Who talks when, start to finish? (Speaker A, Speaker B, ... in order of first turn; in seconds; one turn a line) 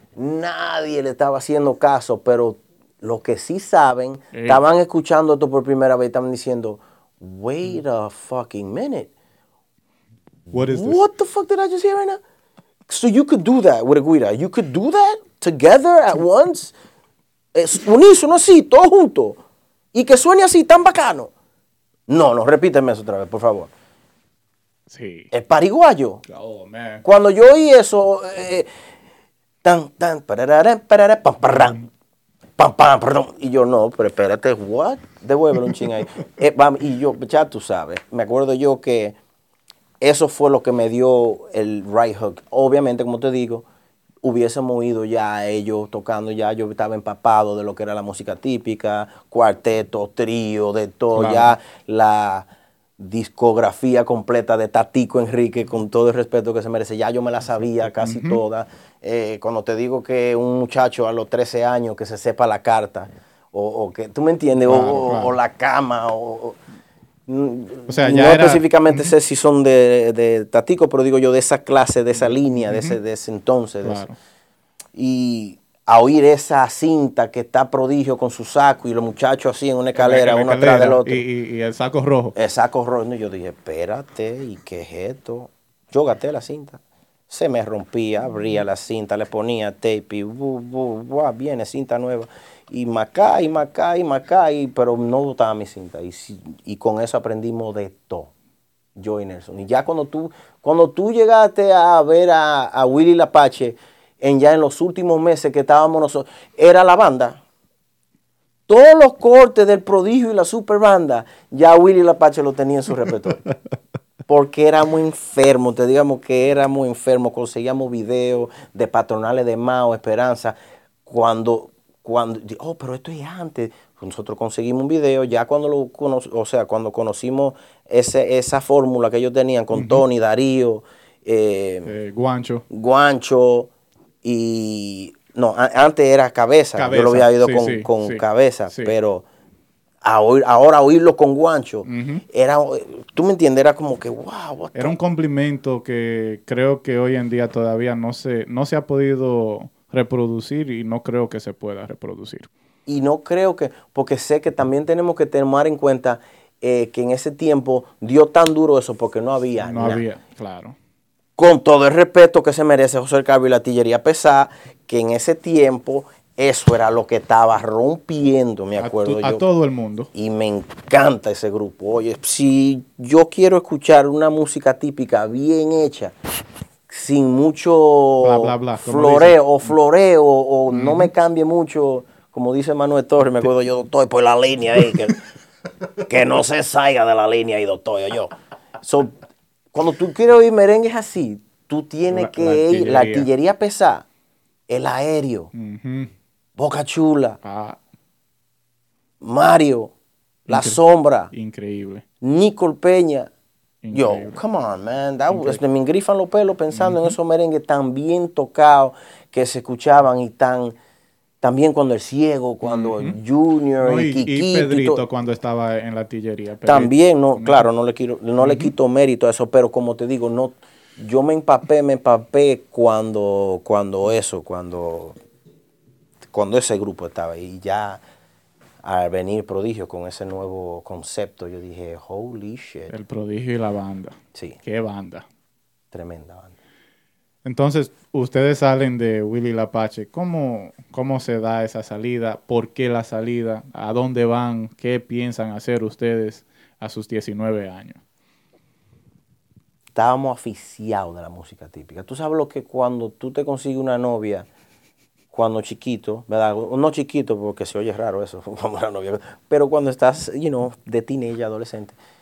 Speaker A: 0.1-9.1
Speaker B: 4.3-4.6
Speaker B: 10.5-11.0
Speaker A: 10.7-12.2
Speaker A: 12.9-16.7
Speaker A: 17.5-19.4
Speaker A: 19.9-21.3
Speaker A: 22.1-23.7
Speaker B: 24.9-25.3
Speaker A: 25.3-26.2
Speaker B: 26.3-27.0
Speaker A: 27.0-28.7
Speaker A: 29.6-31.9
Speaker A: 32.6-39.1
Speaker A: 40.0-43.6
Speaker A: 44.2-52.5
Speaker B: 51.1-51.5
Speaker A: 53.0-66.6
Speaker B: 58.0-58.4
Speaker B: 64.7-65.3
Speaker A: 67.3-74.0
Speaker B: 67.9-69.1
Speaker B: 72.2-73.0
Speaker B: 73.8-74.1
Speaker A: 74.9-81.2
Speaker B: 79.9-82.3
Speaker A: 82.3-98.3
Speaker A: 99.0-107.4
Speaker A: 108.7-113.5
Speaker A: 114.3-131.9
Speaker B: 129.7-130.0
Speaker B: 131.8-132.6
Speaker A: 132.7-133.7
Speaker A: 134.2-139.2
Speaker B: 136.7-138.9
Speaker A: 140.0-144.9
Speaker B: 141.8-142.2
Speaker B: 144.7-152.5
Speaker A: 152.8-160.0
Speaker B: 159.6-160.8
Speaker A: 161.4-169.4
Speaker B: 168.8-170.1
Speaker A: 170.1-176.2
Speaker A: 176.9-185.2
Speaker B: 178.2-179.7
Speaker B: 180.7-181.1
Speaker A: 186.1-189.2
Speaker A: 189.7-194.1
Speaker B: 192.1-193.3
Speaker A: 194.7-195.5
Speaker B: 195.5-196.1
Speaker A: 196.6-197.4
Speaker B: 197.4-197.8
Speaker A: 199.2-199.9
Speaker B: 200.5-200.8
Speaker A: 200.5-201.3
Speaker B: 201.3-202.0
Speaker A: 202.2-203.3
Speaker B: 203.8-204.4
Speaker A: 203.9-210.7
Speaker B: 205.3-205.6
Speaker B: 206.7-207.1
Speaker A: 211.4-215.0
Speaker B: 212.6-213.2
Speaker B: 213.8-217.7
Speaker A: 216.6-225.2
Speaker B: 218.4-218.7
Speaker A: 226.3-228.0
Speaker A: 228.8-232.9
Speaker B: 232.9-235.2
Speaker A: 235.9-236.5
Speaker B: 237.4-248.0
Speaker A: 249.9-254.5
Speaker A: 255.3-262.0